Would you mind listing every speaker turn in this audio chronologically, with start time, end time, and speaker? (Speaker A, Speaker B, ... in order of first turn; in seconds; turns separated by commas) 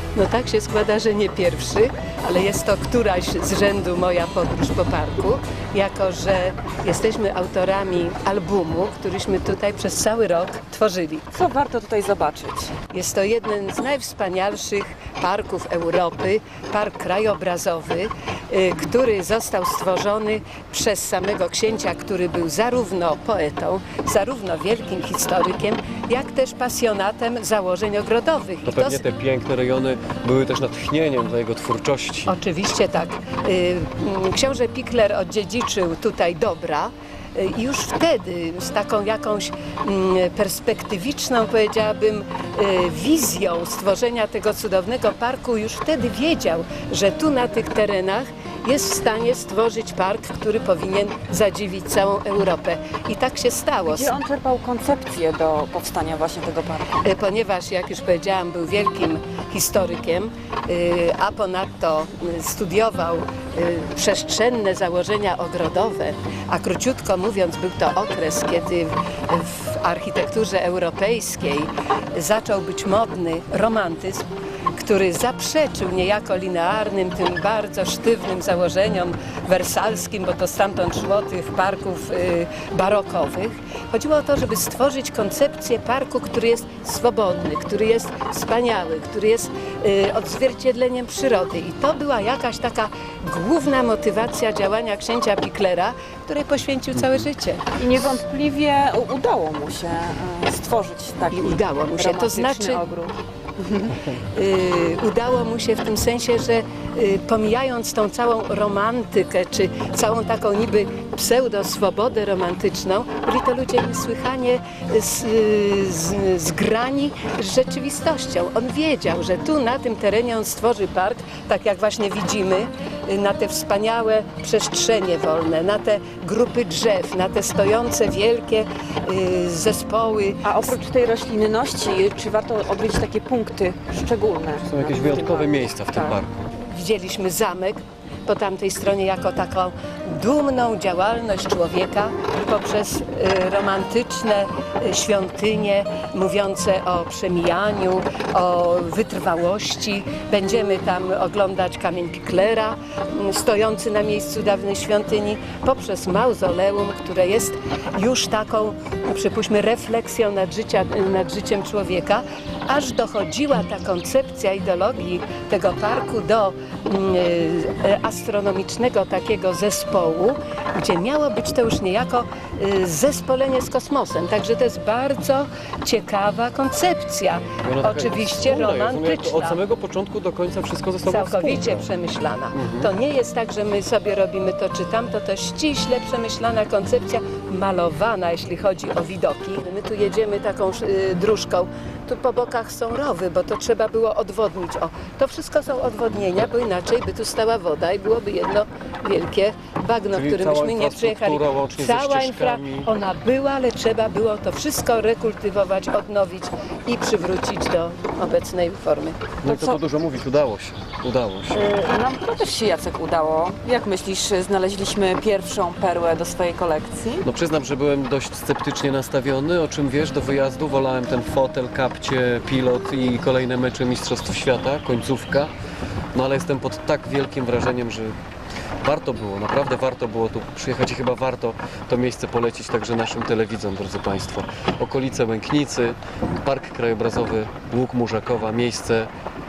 Speaker A: 0.1-11.2, Speaker B: 11.3-12.7, Speaker A: 12.9-29.0, Speaker C: 28.6-32.4, Speaker A: 32.2-54.1, Speaker B: 53.9-57.0, Speaker A: 57.0-97.6, Speaker C: 97.0-97.2, Speaker B: 97.7-104.0, Speaker A: 101.3-102.8, Speaker A: 104.3-130.7, Speaker B: 130.4-136.2, Speaker C: 134.6-136.4, Speaker A: 136.5-179.6, Speaker C: 177.6-181.9, Speaker A: 181.0-209.3, Speaker C: 182.5-182.9, Speaker C: 200.1-202.9, Speaker C: 209.4-211.6, Speaker B: 209.4-209.8, Speaker B: 211.5-217.3, Speaker C: 217.2-225.5, Speaker C: 226.1-228.2, Speaker C: 228.8-239.1